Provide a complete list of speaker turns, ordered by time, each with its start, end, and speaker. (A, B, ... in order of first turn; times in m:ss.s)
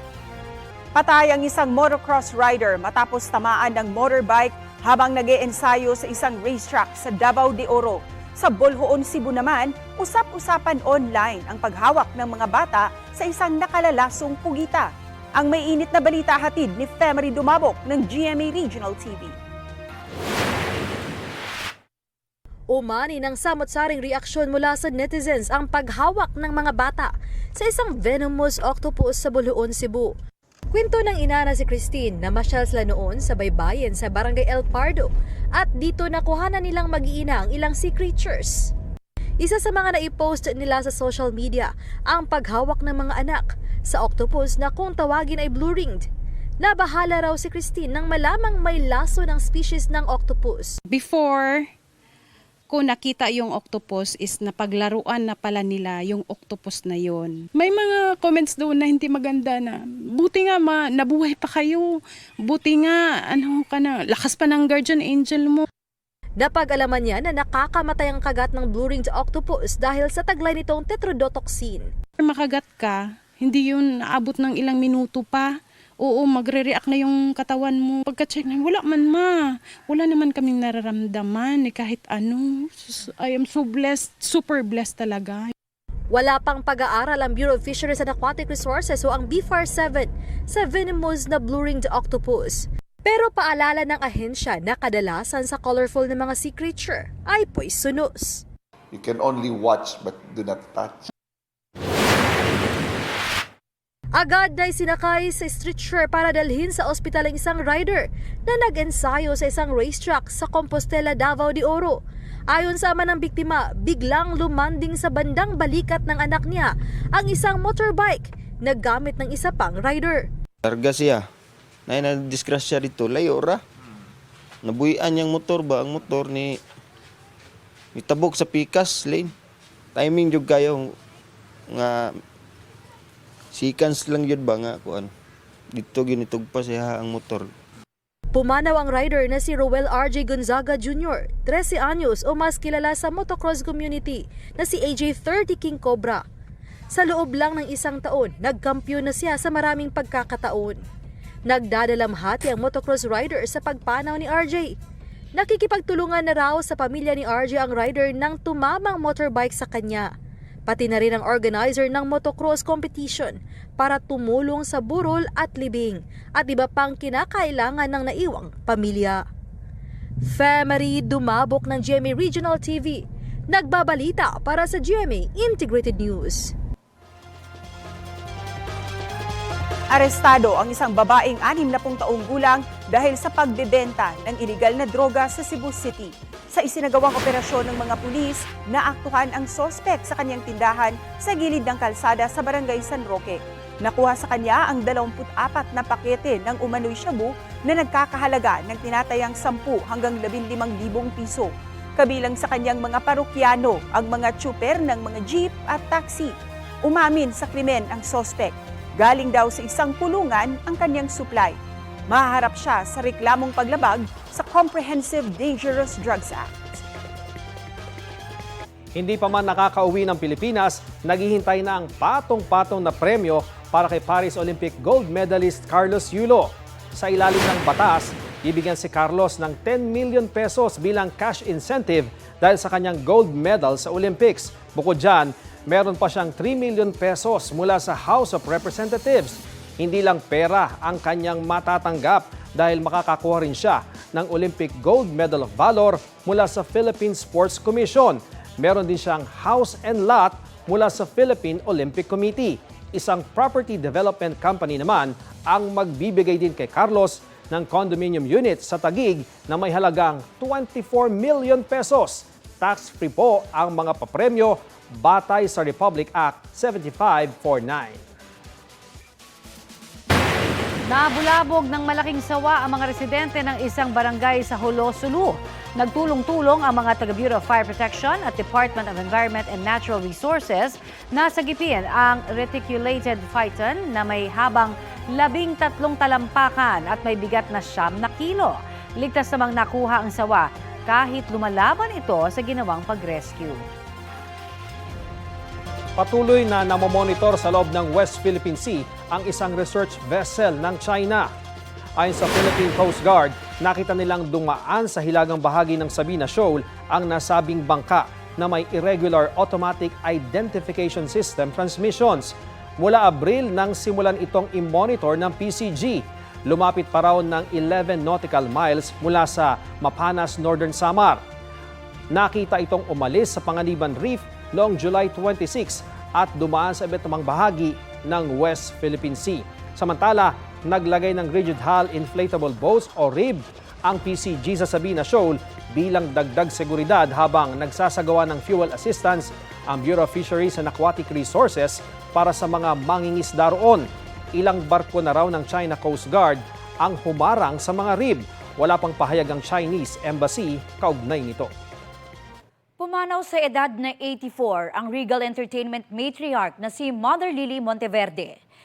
0:01.0-0:19.3 A
0:22.7-0:30.1 B
0:30.7-0:38.7 B
0:39.4-0:46.0 B
0:46.6-0:50.8 B
0:50.9-0:51.6 C
0:52.7-1:01.9 C
1:02.4-1:05.6 C
1:06.4-1:11.9 B
1:12.2-1:15.5 C
1:16.0-1:19.4 C
1:19.9-1:25.5 C
1:26.1-1:38.4 B
1:38.9-1:41.1 D
1:44.2-1:52.0 B
1:52.5-2:00.2 B
2:00.6-2:01.2 E
2:01.9-2:03.6 E
2:04.6-2:06.5 E
2:08.0-2:09.3 E
2:09.9-2:10.9 E
2:11.7-2:12.0 E
2:13.5-2:15.1 E
2:15.8-2:17.5 E
2:18.3-2:26.2 B
2:26.9-2:30.8 B
2:31.5-2:34.7 B
2:35.3-2:40.1 B
2:40.7-2:49.2 B
2:50.3-2:56.5 B
2:59.9-3:31.6 A
3:32.1-3:36.7 A
3:39.0-4:28.0 F
4:30.9-4:53.6 G
4:56.0-5:01.3 F
5:02.0-5:21.2 F
5:22.1-5:51.5 F
5:52.8-5:58.4 H